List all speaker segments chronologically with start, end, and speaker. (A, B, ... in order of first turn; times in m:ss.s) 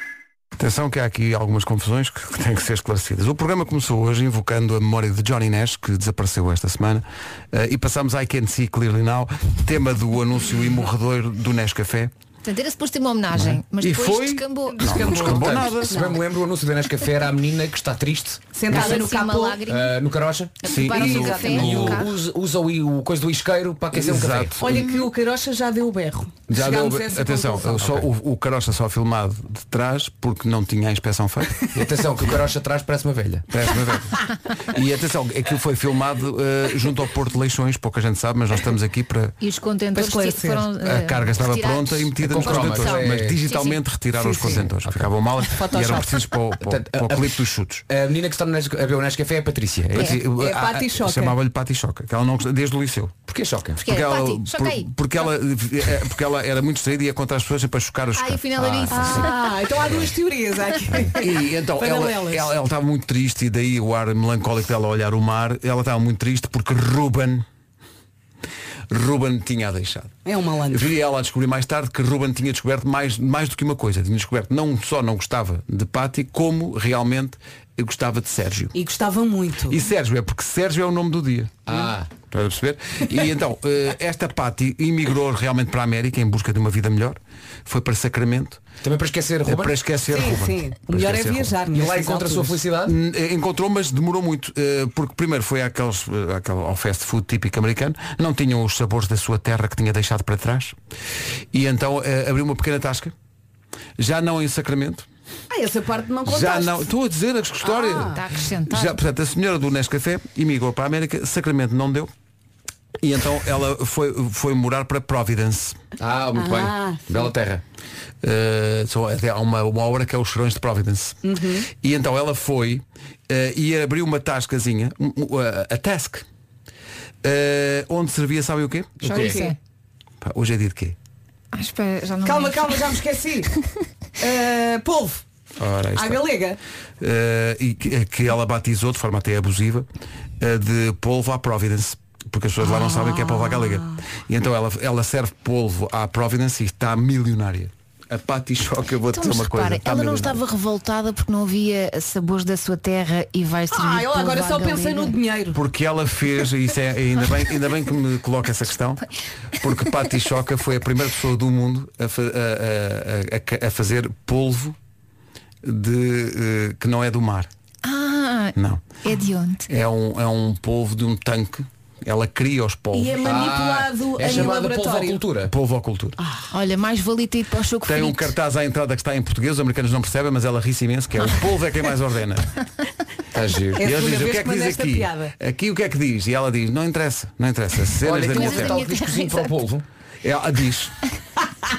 0:00.6-0:12.1 A
0:12.4-0:15.5 B
0:13.3-0:16.0 A
0:14.7-0:16.2 C
0:14.9-0:18.4 D
0:18.5-0:19.6 C
0:18.7-0:20.0 B
0:19.6-0:24.6 D
0:20.6-0:22.1 B
0:20.6-0:22.1 A
0:20.9-0:21.7 C
0:23.9-0:24.9 A
0:24.6-0:27.9 C
0:26.5-0:31.7 A
0:27.8-0:28.0 D
0:31.7-0:33.5 D
0:33.5-0:39.4 A
0:39.4-0:43.8 B
0:39.9-0:40.7 C
0:40.8-0:47.8 A
0:42.2-0:43.4 D
0:44.2-0:44.7 C
0:44.8-0:45.1 D
0:45.4-0:46.3 C
0:46.6-0:50.2 D
0:49.9-0:53.2 A
0:50.2-0:51.4 C
0:53.3-0:53.8 D
0:53.8-0:59.3 A
0:53.8-0:54.9 B
0:58.1-0:59.4 B
0:58.9-1:02.5 C
1:00.9-1:07.4 A
1:08.9-1:10.1 A
1:10.2-1:10.9 C
1:10.7-1:18.8 A
1:18.7-1:19.8 C
1:19.7-1:21.7 A
1:21.6-1:22.1 D
1:22.2-1:28.6 A
1:28.8-1:29.8 D
1:29.4-1:31.6 A
1:30.1-1:32.6 C
1:31.7-1:33.0 D
1:32.8-1:40.8 A
1:41.5-1:43.1 A
1:44.0-1:45.0 A
1:45.5-1:46.9 C
1:46.2-1:52.1 A
1:47.6-1:48.2 C
1:48.1-1:49.0 B
1:53.0-1:55.8 A
1:56.0-1:57.6 D
1:56.3-1:57.3 C
1:58.2-2:06.2 A
2:01.2-2:01.7 C
2:07.2-2:09.3 A
2:09.0-2:09.4 D
2:09.1-2:09.5 C
2:09.1-2:09.6 B
2:10.2-2:11.0 A
2:11.5-2:13.0 B
2:12.2-2:13.5 C
2:14.2-2:15.2 C
2:15.6-2:16.3 A
2:15.9-2:16.6 C
2:17.0-2:19.9 A
2:20.4-2:30.4 A
2:22.6-2:24.0 C
2:29.1-2:35.2 B
2:33.7-2:35.6 C
2:35.5-2:39.0 A
2:39.6-2:44.8 A
2:45.6-2:47.5 A
2:47.8-2:49.6 B
2:48.6-2:48.8 A
2:49.7-2:53.6 A
2:52.9-2:55.2 C
2:53.2-2:55.5 D
2:54.2-2:54.5 A
2:55.4-2:56.2 A
2:56.2-2:56.5 C
2:56.5-2:58.3 B
2:57.8-3:02.5 A
3:03.3-3:03.8 D
3:03.7-3:08.8 A
3:03.8-3:05.3 C
3:08.0-3:09.8 D
3:08.2-3:09.6 B
3:10.2-3:11.0 A